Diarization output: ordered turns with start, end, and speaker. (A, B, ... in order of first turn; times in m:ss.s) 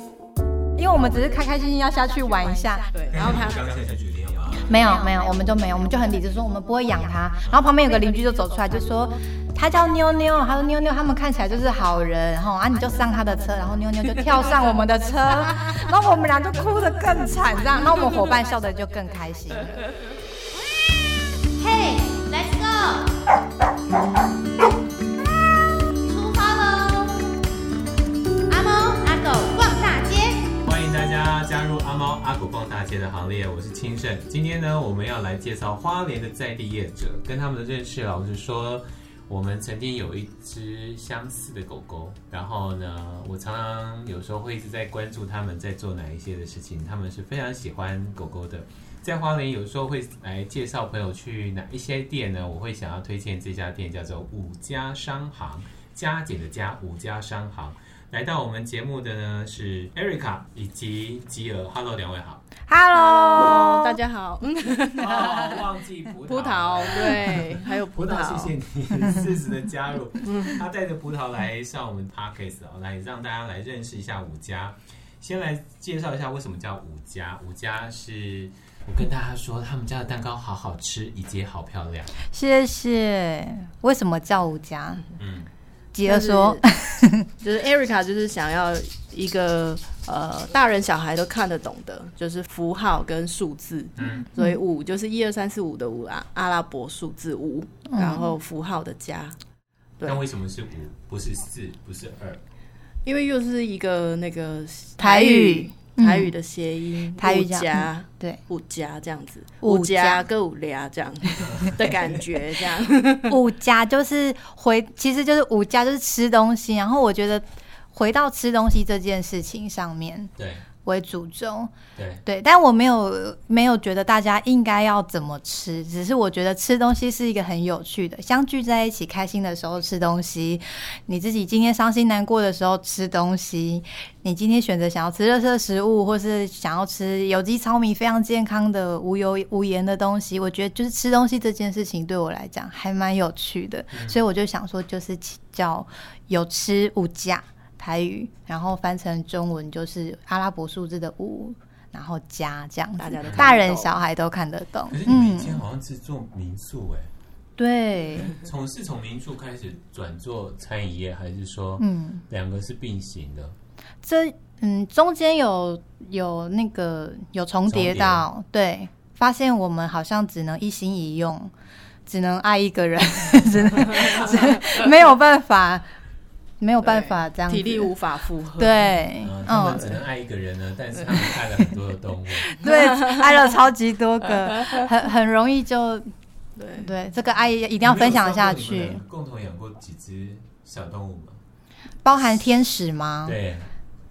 0:00.8-0:02.9 A
0:02.9-0:03.7 B
0:03.1-0:04.9 C
0:04.6-0:19.9 A
0:21.5-0:23.1 D
0:25.9-0:27.3 D
0:28.5-0:30.5 D
0:30.6-1:02.4 C
1:02.7-1:04.0 A
1:02.9-1:05.7 B
1:05.0-1:22.1 C
1:06.2-1:08.6 B
1:10.3-1:10.6 B
1:22.3-1:25.0 A
1:25.2-1:25.5 C
1:25.9-1:27.3 A
1:26.0-1:26.6 B
1:27.4-1:39.4 B
1:34.0-1:34.3 C
1:37.9-1:38.3 A
1:40.0-1:42.4 C
1:43.1-1:53.4 B
1:45.0-1:46.3 A
1:47.2-1:48.4 A
1:49.6-1:50.3 A
1:51.4-1:52.2 C
1:53.3-2:00.3 A
2:00.4-2:00.6 C
2:00.8-2:01.7 A
2:02.0-2:02.2 C
2:02.2-2:35.6 A
2:23.9-2:24.2 C
2:33.0-2:34.0 B
2:34.9-2:37.1 C
2:37.6-2:38.3 A
2:38.2-2:43.6 C
2:41.8-2:42.2 A
2:44.0-2:51.5 A
2:47.7-2:48.2 C
2:52.1-2:55.9 A
2:54.0-2:54.3 C
2:56.6-2:57.9 A
2:56.8-2:59.0 B
2:58.6-3:00.0 A
2:59.2-3:02.5 C
3:02.4-3:06.1 A
3:02.6-3:03.4 B
3:04.3-3:04.9 B
3:06.6-3:06.9 B
3:06.8-3:09.0 A
3:07.8-3:11.4 C
3:12.0-3:13.4 A
3:13.2-3:13.7 C